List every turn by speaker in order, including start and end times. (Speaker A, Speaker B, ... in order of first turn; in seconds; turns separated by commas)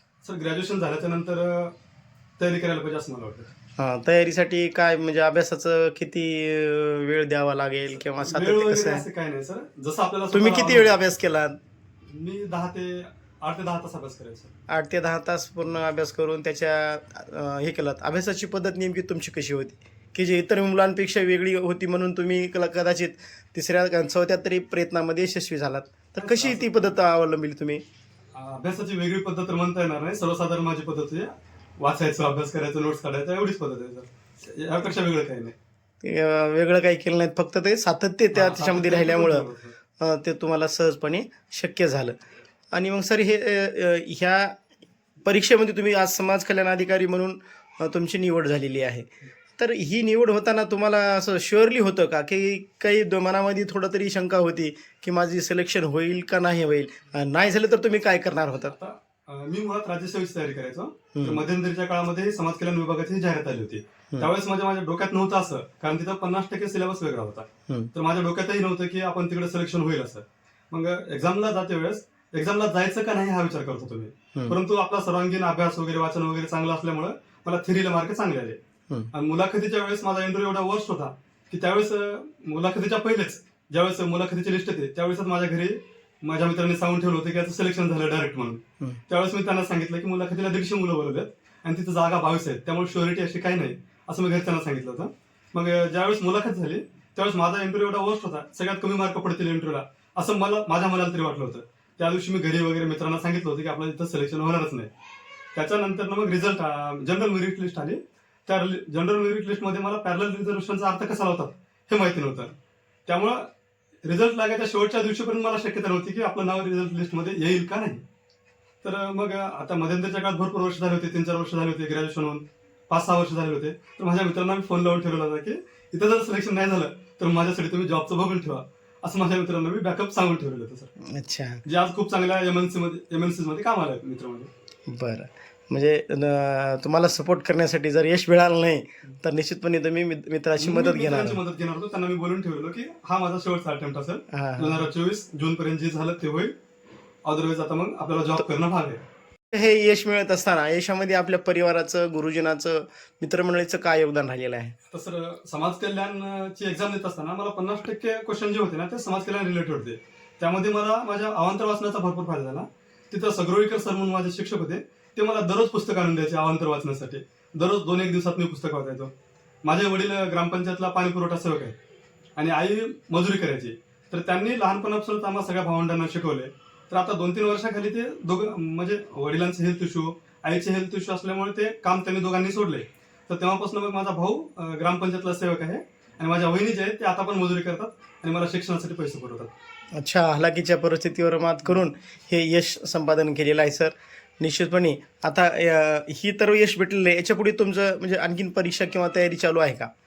Speaker A: 0.2-1.7, Speaker A: 2.4-3.5, Speaker B: 3.8-9.0, Speaker A: 8.2-11.0, Speaker B: 10.3-11.6, Speaker A: 12.1-14.5, Speaker B: 14.7-27.8, Speaker A: 26.2-26.7, Speaker A: 28.3-35.5, Speaker B: 36.0-39.5, Speaker A: 38.3-39.7, Speaker B: 40.0-42.2, Speaker B: 42.7-44.6, Speaker B: 45.2-58.7, Speaker A: 58.6-78.6, Speaker B: 61.1-61.4, Speaker A: 79.1-104.9, Speaker A: 105.5-113.5, Speaker A: 114.0-118.0, Speaker A: 118.8-130.9, Speaker B: 131.1-131.6, Speaker A: 131.6-134.5, Speaker B: 134.9-141.4, Speaker A: 140.6-146.5, Speaker B: 144.3-144.9, Speaker A: 147.2-149.0, Speaker B: 149.5-154.7, Speaker A: 154.9-169.1, Speaker A: 169.6-171.8, Speaker A: 172.3-189.5, Speaker B: 189.9-199.9